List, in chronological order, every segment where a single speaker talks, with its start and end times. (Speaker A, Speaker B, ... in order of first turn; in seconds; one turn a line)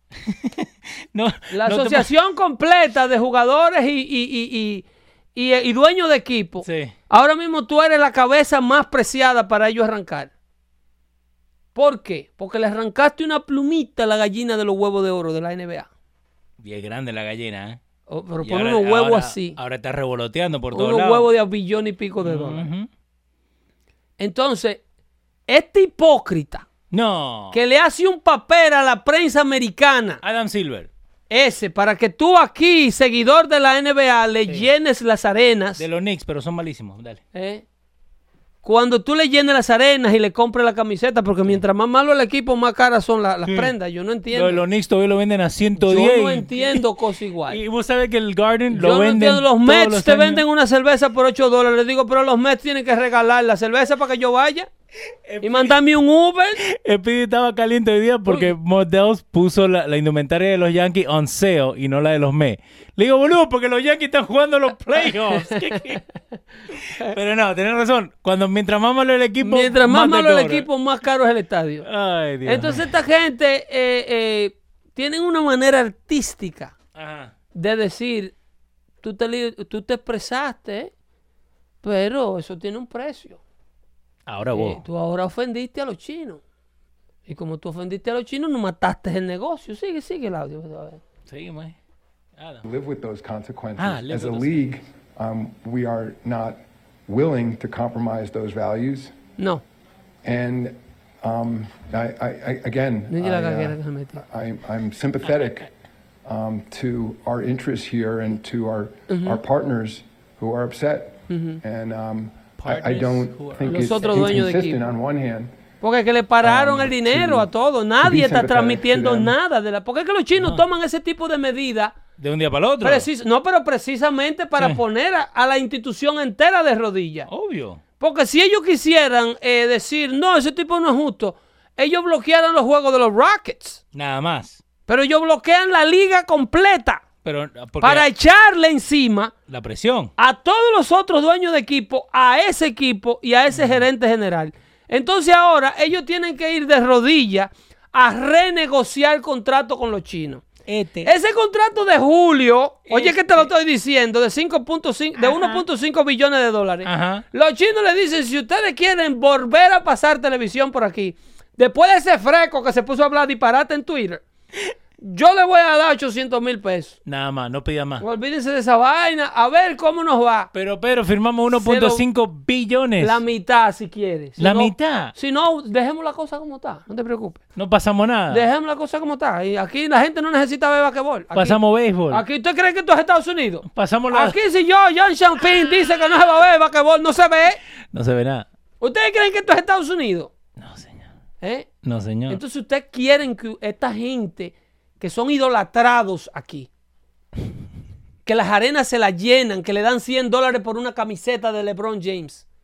Speaker A: 0.2-2.1
Speaker B: 1.5-4.8
Speaker B: 5.3-10.3
Speaker A: 6.6-6.9
Speaker B: 11.7-15.9
Speaker A: 16.6-17.8
Speaker B: 18.1-19.6
Speaker A: 18.4-21.3
Speaker B: 20.7-22.7
Speaker A: 22.2-22.9
Speaker B: 24.2-24.8
Speaker B: 25.5-26.6
Speaker A: 26.9-27.6
Speaker B: 27.5-30.2
Speaker A: 30.2-30.9
Speaker B: 31.3-35.8
Speaker A: 35.8-37.2
Speaker B: 37.3-37.6
Speaker B: 38.6-44.6
Speaker A: 43.5-43.7
Speaker A: 44.3-46.8
Speaker B: 45.8-47.6
Speaker A: 47.5-50.4
Speaker B: 48.7-54.7
Speaker A: 55.2-55.7
Speaker B: 55.4-56.6
Speaker A: 56.6-66.0
Speaker B: 65.5-66.0
Speaker A: 66.7-70.7
Speaker B: 69.4-71.8
Speaker A: 71.8-72.9
Speaker B: 72.4-76.7
Speaker A: 76.9-77.3
Speaker B: 77.5-78.3
Speaker B: 79.0-80.9
Speaker B: 81.8-83.4
Speaker A: 84.3-84.8
Speaker B: 84.5-86.4
Speaker B: 87.3-91.0
Speaker A: 91.3-91.8
Speaker A: 92.4-92.6
Speaker C: 92.6-99.1
Speaker A: 93.8-94.7
Speaker B: 99.4-99.6
Speaker C: 100.2-105.7
Speaker B: 103.1-104.2
Speaker C: 106.2-115.5
Speaker B: 109.1-109.4
Speaker B: 111.3-111.6
Speaker A: 112.6-114.4
Speaker B: 113.7-114.9
Speaker B: 115.8-121.9
Speaker C: 116.4-117.5
Speaker C: 118.0-119.3
Speaker A: 120.4-120.6
Speaker A: 122.2-123.1
Speaker B: 122.8-127.3
Speaker A: 127.3-127.8
Speaker B: 128.0-133.8
Speaker A: 133.9-134.6
Speaker B: 134.9-137.0
Speaker A: 137.2-138.1
Speaker B: 137.8-139.3
Speaker A: 139.5-140.1
Speaker B: 140.2-150.4
Speaker A: 143.5-143.8
Speaker A: 150.7-151.1
Speaker B: 151.0-164.2
Speaker A: 152.9-153.5
Speaker A: 155.2-155.6
Speaker A: 156.8-157.2
Speaker B: 165.0-167.0
Speaker A: 167.1-168.0
Speaker B: 168.0-170.5
Speaker A: 170.5-173.2
Speaker B: 171.5-172.0
Speaker B: 173.0-177.4
Speaker A: 174.4-175.1
Speaker A: 177.6-178.4
Speaker B: 178.3-181.6
Speaker A: 181.3-182.2
Speaker B: 182.1-187.6
Speaker A: 183.7-184.4
Speaker A: 187.9-188.5
Speaker B: 188.8-190.3
Speaker A: 190.6-191.1
Speaker B: 191.4-191.7
Speaker A: 191.8-192.4
Speaker B: 192.3-196.7
Speaker B: 198.2-202.4